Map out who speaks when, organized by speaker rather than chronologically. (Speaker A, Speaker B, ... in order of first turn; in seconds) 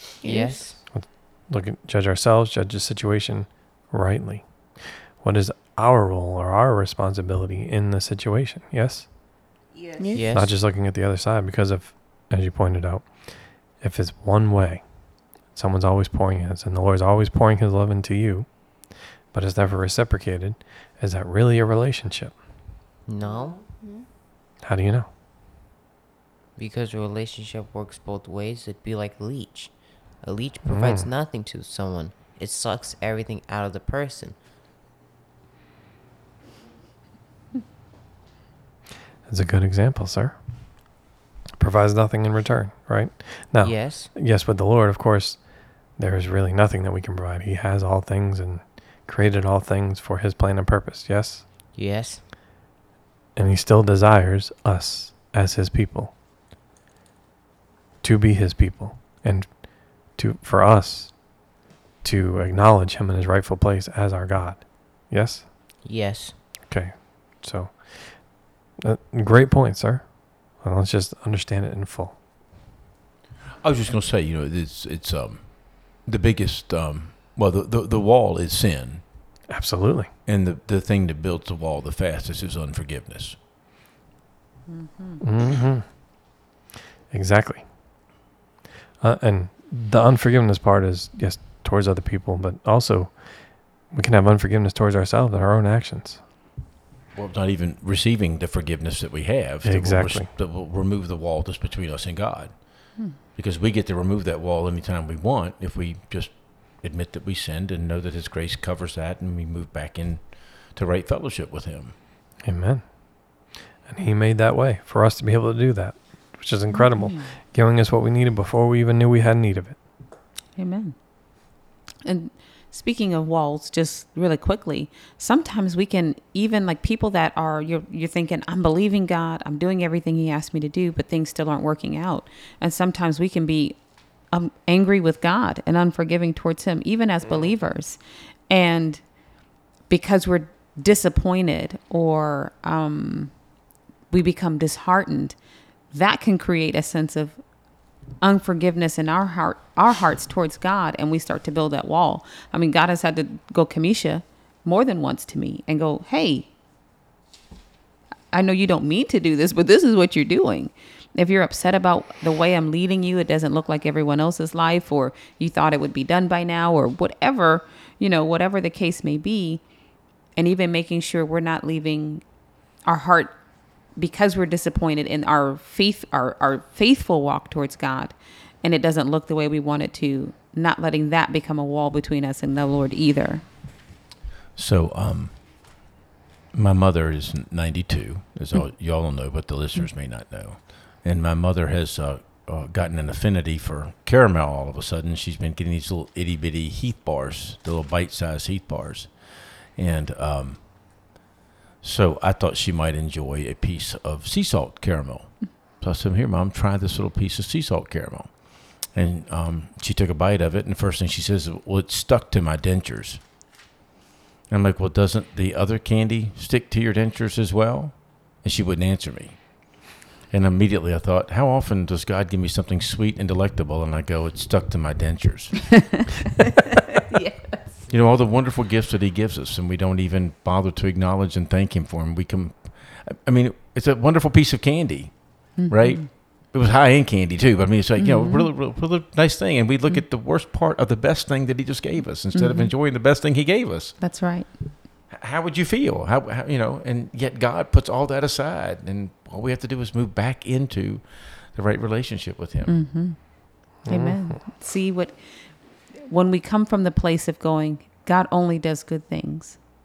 Speaker A: 0.2-0.8, 9.9-10.3, 23.2-24.1
Speaker B: 0.2-0.8, 10.1-10.5, 23.1-23.6, 26.6-34.4, 43.6-44.1, 51.7-52.2, 65.8-66.3
Speaker C: 0.8-9.2, 10.3-22.4, 24.6-25.1, 30.6-31.1, 39.3-41.0, 41.6-51.5, 53.4-56.1, 58.0-61.4, 62.0-65.5, 66.7-72.2, 79.5-80.1, 85.2-86.3, 87.1-87.7, 89.0-96.2, 99.6-100.3, 112.4-119.8, 253.8-254.4
Speaker D: 73.6-79.0, 80.2-83.4, 97.1-111.9, 184.6-185.9, 186.5-201.1, 201.8-213.2, 214.5-226.0, 227.9-244.0, 245.1-252.8
Speaker E: 84.7-85.2, 116.7-117.3, 120.5-121.5, 122.0-133.8, 134.3-139.0, 139.9-143.3, 144.1-145.3, 145.9-147.4, 148.2-156.5, 158.3-169.6, 170.3-172.2, 172.8-173.4, 173.9-183.4, 227.1-227.8, 235.6-236.1, 238.0-238.5, 242.3-242.7, 244.0-244.7, 252.7-259.6